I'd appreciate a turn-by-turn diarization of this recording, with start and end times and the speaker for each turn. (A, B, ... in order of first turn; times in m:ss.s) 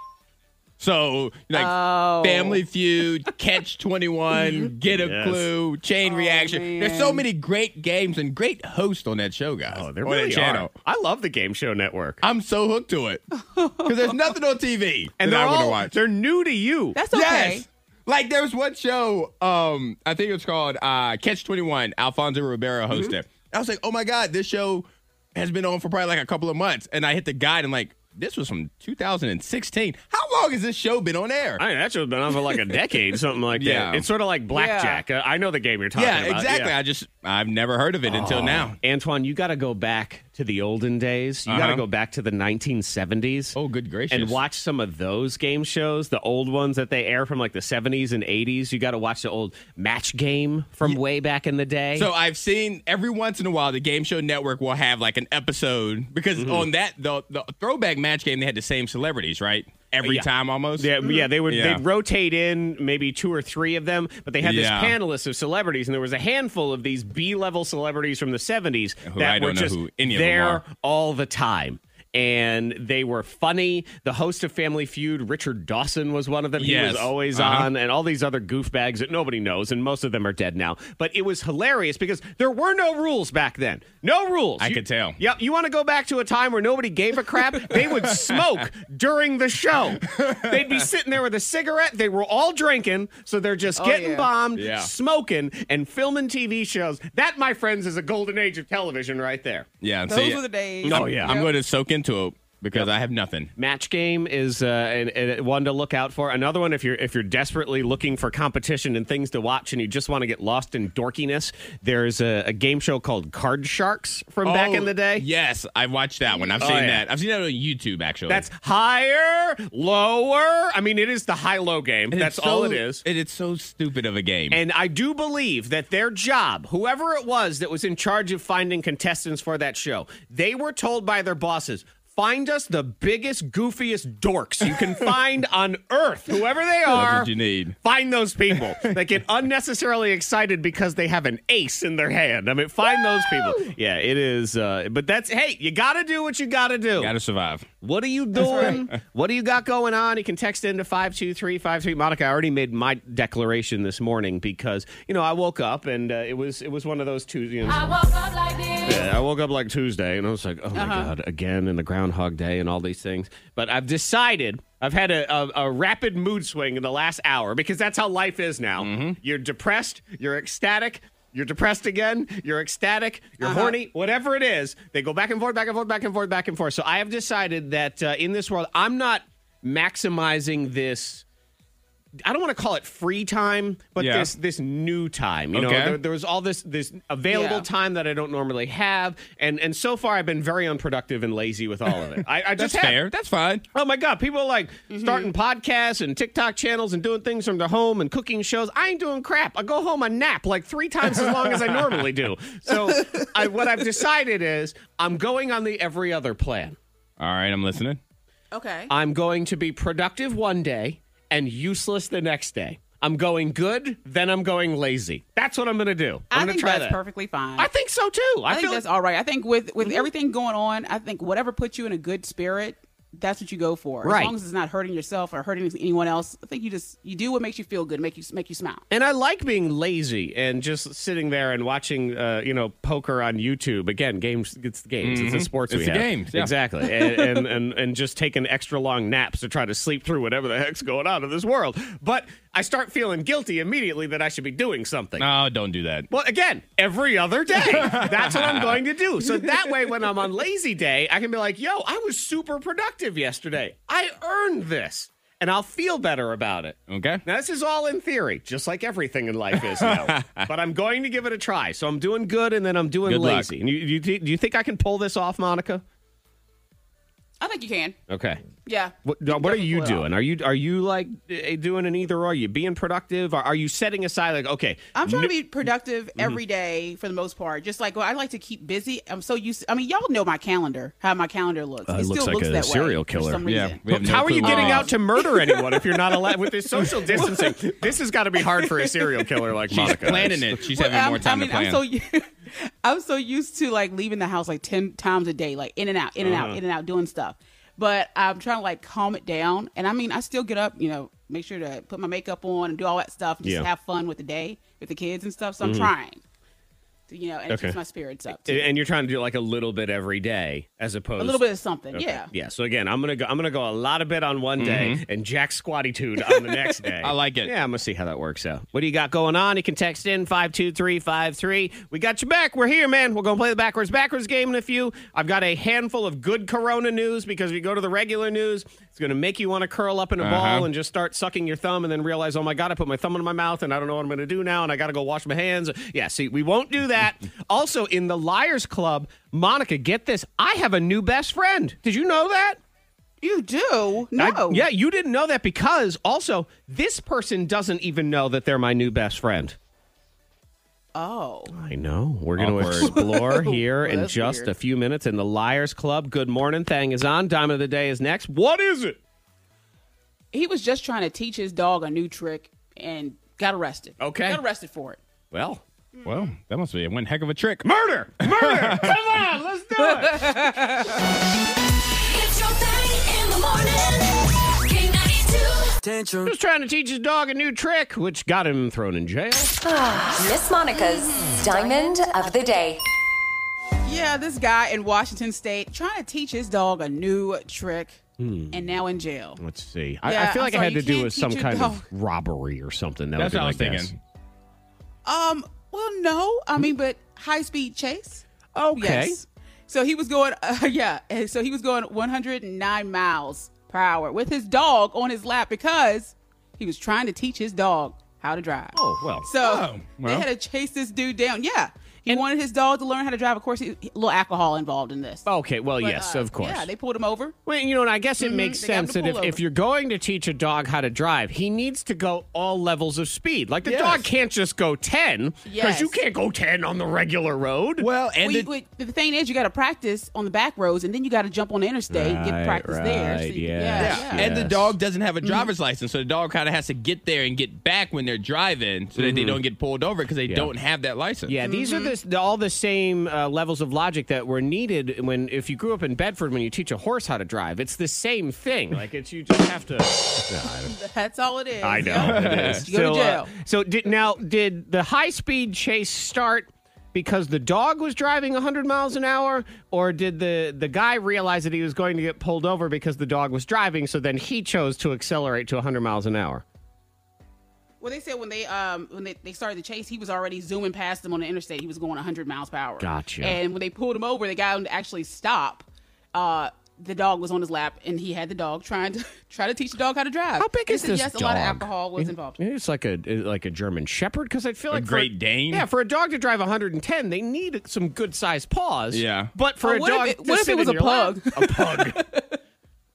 0:00.8-0:10.7 A
0:01.5-0:02.6 B
0:04.9-0:05.5 C
0:06.0-0:07.2 B
0:09.7-0:12.2 C
0:12.2-0:13.2 A
0:13.4-0:14.2 B
0:13.8-0:15.9 A
0:15.2-0:17.0 C
0:16.9-0:17.6 B
0:17.1-0:31.6 A
0:31.6-0:36.7 C
0:33.5-0:34.0 A
0:34.5-0:35.0 B
0:35.9-0:38.8 A
0:38.1-0:43.6 C
0:41.5-0:41.8 A
0:43.5-0:44.4 A
0:44.1-0:52.1 C
0:52.0-1:01.8 A
0:56.4-0:56.7 C
1:00.0-1:39.7 C
1:04.4-1:05.0 A
1:09.0-1:10.6 A
1:16.6-1:17.7 A
1:24.6-1:25.2 A
1:27.7-1:28.5 A
1:30.0-1:30.8 A
1:33.8-1:34.3 B
1:34.5-1:34.9 A
1:39.8-1:43.5 A
1:40.1-1:41.5 B
1:40.8-1:41.4 C
1:43.6-1:55.3 C
1:54.4-1:58.4 A
1:56.3-1:56.6 B
1:56.6-1:57.0 C
1:58.3-2:03.0 C
2:02.1-2:04.6 A
2:04.5-2:17.3 C
2:16.9-2:17.8 A
2:17.8-2:27.1 C
2:18.5-2:19.0 A
2:23.0-2:23.6 B
2:27.0-2:27.7 A
2:27.8-2:38.0 C
2:28.4-2:28.9 B
2:37.9-2:39.0 D
2:38.8-3:01.2 C
2:40.7-2:41.1 B
2:48.8-2:49.2 A
2:53.4-2:53.7 B
3:02.2-3:13.0 C
3:04.0-3:04.3 A
3:05.5-3:06.0 A
3:07.3-3:07.7 B
3:12.2-3:13.6 A
3:13.7-3:26.8 C
3:14.9-3:15.3 B
3:21.2-3:21.9 A
3:27.2-3:28.0 A
3:28.5-3:28.9 B
3:28.9-3:37.0 C
3:36.3-3:37.7 B
3:37.6-3:38.8 C
3:38.5-3:48.8 B
3:39.8-3:40.1 C
3:44.0-3:44.3 C
3:48.9-4:05.3 C
3:55.0-3:56.5 A
4:05.2-4:06.1 A
4:06.1-4:25.8 C
4:07.5-4:09.7 A
4:16.9-4:17.2 A
4:19.5-4:20.5 A
4:23.0-4:23.5 A
4:27.4-4:28.0 B
4:28.1-4:28.4 C
4:28.6-4:30.1 B
4:29.0-4:35.3 C
4:34.9-4:47.6 B
4:41.8-4:50.5 C
4:43.4-4:44.9 A
4:48.5-4:49.4 B
4:49.7-4:51.8 A
4:50.7-5:06.2 B
4:56.2-4:56.6 C
5:05.6-5:05.9 C
5:07.1-5:08.7 B
5:07.5-5:07.8 C
5:08.3-5:42.6 C
5:11.2-5:12.3 B
5:14.6-5:15.0 A
5:17.0-5:17.5 A
5:30.2-5:30.7 A
5:43.2-5:44.6 B
5:44.2-5:49.6 C
5:50.9-5:51.5 B
5:51.5-5:59.0 C
5:52.4-5:52.9 A
5:52.8-5:54.5 B
6:00.3-6:05.0 B
6:04.0-6:04.4 C
6:05.3-6:05.6 C
6:06.0-6:06.3 B
6:06.0-6:07.6 A
6:07.6-6:10.3 C
6:08.2-6:09.0 A
6:10.1-6:10.9 B
6:12.0-6:15.7 D
6:16.2-6:19.6 C
6:19.6-6:22.8 E
6:20.8-6:21.4 B
6:23.8-6:28.0 B
6:28.2-6:28.7 C
6:28.5-6:29.4 B
6:29.4-6:33.9 C
6:30.0-6:31.8 B
6:33.2-6:33.9 A
6:35.0-6:38.2 B
6:38.5-6:39.2 C
6:38.8-6:55.3 B
6:48.7-6:49.3 C
6:49.4-6:50.3 A
6:55.2-6:56.7 C
6:55.8-6:57.3 B
6:57.4-7:07.8 C
6:58.2-6:59.4 B
7:03.6-7:04.1 A
7:05.4-7:06.0 B
7:07.8-7:08.5 A
7:08.2-7:14.2 B
7:11.9-7:14.7 C
7:13.8-7:21.3 A
7:15.2-7:15.5 B
7:19.0-7:19.4 C
7:21.3-7:30.7 C
7:21.4-7:21.9 B
7:30.7-7:33.3 B
7:31.6-7:46.4 C
7:31.8-7:32.6 A
7:47.8-8:02.4 B
7:52.8-7:53.4 C
8:00.4-8:12.0 C
8:04.7-8:05.7 A
8:08.9-8:09.3 A
8:09.6-8:12.4 B